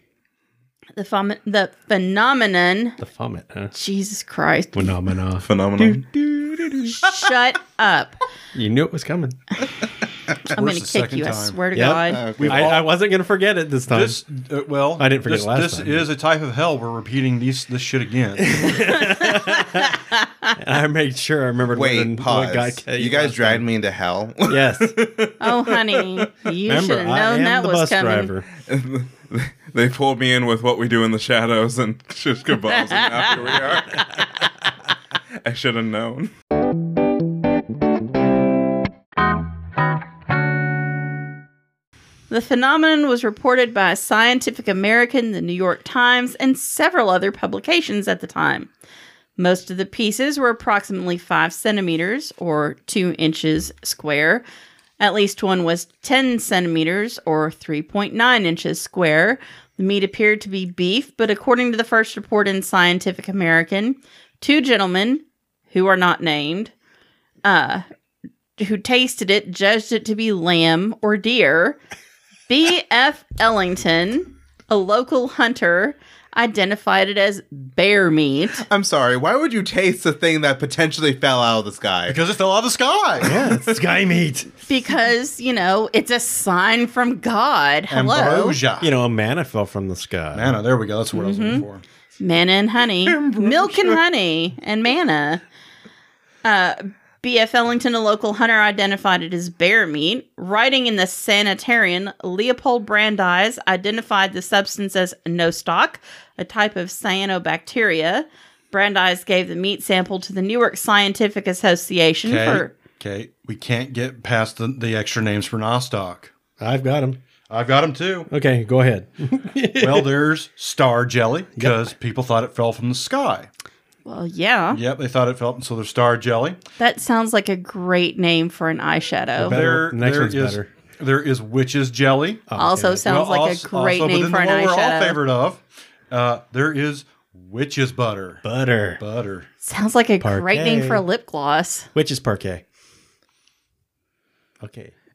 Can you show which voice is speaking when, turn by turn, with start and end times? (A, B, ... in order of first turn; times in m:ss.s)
0:01.0-0:03.0 A
0:03.0-0:03.7 B
0:03.7-0:04.9 A
0:04.7-0:06.1 B
0:05.4-0:07.3 C
0:06.8-0:08.2 A
0:08.5-0:09.4 B
0:10.5-0:12.4 A
0:10.5-0:11.6 D
0:11.7-0:14.2 B
0:12.1-0:12.8 C
0:12.4-0:12.8 D
0:13.9-0:18.7 D
0:15.0-0:16.0 B
0:18.4-0:20.0 B
0:18.9-0:20.5 A
0:20.6-0:23.6 B
0:21.7-0:26.3 C
0:24.5-0:25.0 B
0:25.4-0:28.3 A
0:26.6-0:28.5 B
0:28.6-0:34.2 C
0:32.7-0:34.1 A
0:35.4-0:36.3 C
0:42.3-0:48.7 A
0:49.4-0:54.4 A
0:55.0-1:06.7 A
1:07.4-1:07.8 A
1:08.6-1:11.8 A
1:12.5-1:18.6 A
1:18.6-1:22.2 C
1:22.1-1:23.4 D
1:23.2-1:24.5 B
1:23.5-1:23.8 C
1:24.7-1:28.6 A
1:27.9-1:28.9 D
1:28.8-1:30.6 B
1:30.3-1:31.8 D
1:31.1-1:31.6 A
1:32.2-1:35.4 A
1:33.0-1:34.0 C
1:36.4-1:52.7 A
1:52.2-1:56.3 D
1:56.6-1:57.2 B
1:57.5-1:58.3 D
1:58.3-2:00.1 B
1:59.8-2:03.5 D
2:01.6-2:01.9 B
2:04.0-2:04.8 A
2:04.7-2:06.6 D
2:06.8-2:09.7 A
2:09.4-2:10.7 B
2:09.5-2:12.4 D
2:12.5-2:13.1 B
2:12.6-2:15.2 A
2:13.0-2:18.4 D
2:18.4-2:19.0 B
2:19.0-2:19.5 D
2:19.6-2:21.9 A
2:20.2-2:21.0 B
2:21.9-2:22.6 B
2:24.6-2:24.9 B